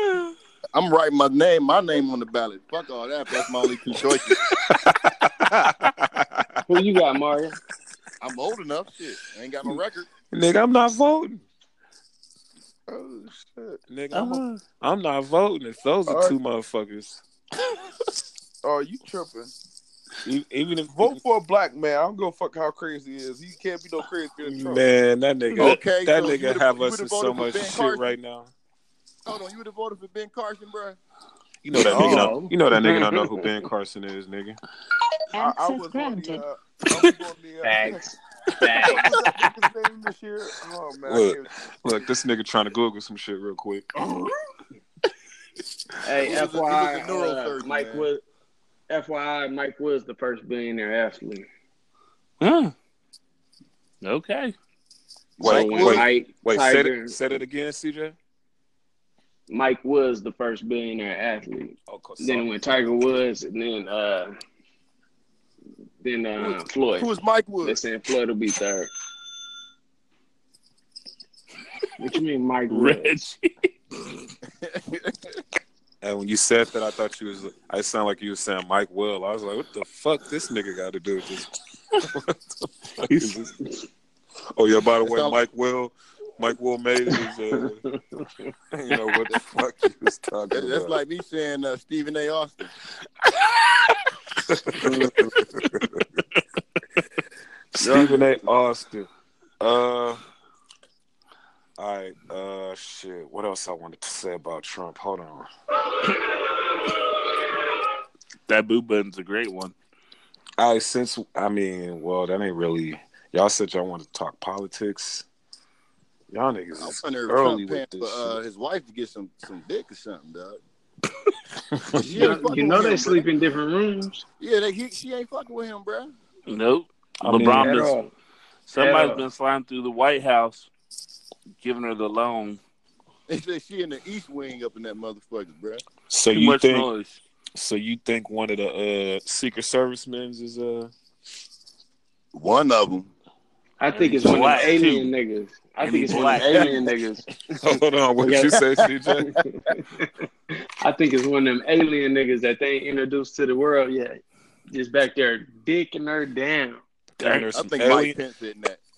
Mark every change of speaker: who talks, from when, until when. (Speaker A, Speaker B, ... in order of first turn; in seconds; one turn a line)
Speaker A: 0.7-4.4
Speaker B: 4.7-6.6
Speaker C: 6.7-7.6
Speaker A: 8.2-10.1
Speaker B: 10.3-11.4
Speaker D: 12.9-13.8
Speaker B: 13.9-17.2
Speaker D: 16.1-16.4
Speaker D: 18.6-19.5
Speaker B: 20.2-21.2
Speaker D: 20.9-24.8
Speaker B: 24.4-28.5
Speaker A: 25.6-28.1
Speaker A: 29.2-31.0
Speaker B: 31.6-34.6
Speaker C: 31.8-33.4
Speaker D: 31.9-32.3
Speaker D: 35.3-38.0
Speaker C: 37.6-39.2
Speaker D: 38.7-41.5
Speaker B: 41.0-43.9
Speaker C: 46.0-48.2
Speaker A: 46.2-48.1
Speaker C: 48.9-51.5
Speaker E: 52.4-52.7
Speaker E: 54.0-54.5
Speaker A: 55.4-56.1
Speaker B: 55.4-58.1
Speaker C: 55.4-57.1
Speaker C: 59.5-64.3
Speaker B: 61.9-62.5
Speaker C: 66.0-67.1
Speaker A: 66.4-67.8
Speaker C: 67.6-68.9
Speaker C: 72.0-73.1
Speaker E: 72.7-73.7
Speaker A: 74.6-75.4
Speaker B: 76.0-81.5
Speaker B: 82.0-82.3
Speaker B: 83.0-83.5
Speaker E: 83.1-83.4
Speaker B: 84.5-87.8
Speaker A: 85.0-85.4
Speaker C: 87.7-88.2
Speaker B: 88.7-91.0
Speaker A: 90.5-92.7
Speaker B: 94.5-96.0
Speaker B: 97.7-99.1
Speaker B: 99.6-100.2
Speaker B: 101.8-105.5
Speaker E: 108.5-109.7
Speaker B: 110.6-115.2
Speaker B: 116.3-118.4
Speaker A: 116.8-120.6
Speaker B: 121.7-122.3
Speaker A: 122.0-123.3
Speaker C: 122.0-124.2
Speaker A: 124.4-126.1
Speaker E: 126.5-128.1
Speaker B: 127.2-127.7
Speaker C: 127.4-128.1
Speaker E: 128.7-130.7
Speaker C: 128.7-129.2
Speaker E: 131.6-132.6
Speaker A: 133.3-135.8
Speaker B: 136.1-136.9
Speaker E: 136.3-137.2
Speaker B: 137.5-140.9
Speaker A: 142.3-143.1
Speaker C: 143.8-147.2
Speaker E: 143.9-145.1
Speaker E: 145.8-146.8
Speaker B: 146.1-146.7
Speaker B: 147.5-149.3
Speaker C: 148.2-148.6
Speaker C: 149.2-150.1
Speaker C: 150.8-154.2
Speaker C: 154.7-156.8
Speaker B: 157.2-158.2
Speaker E: 157.2-157.5
Speaker A: 157.5-158.8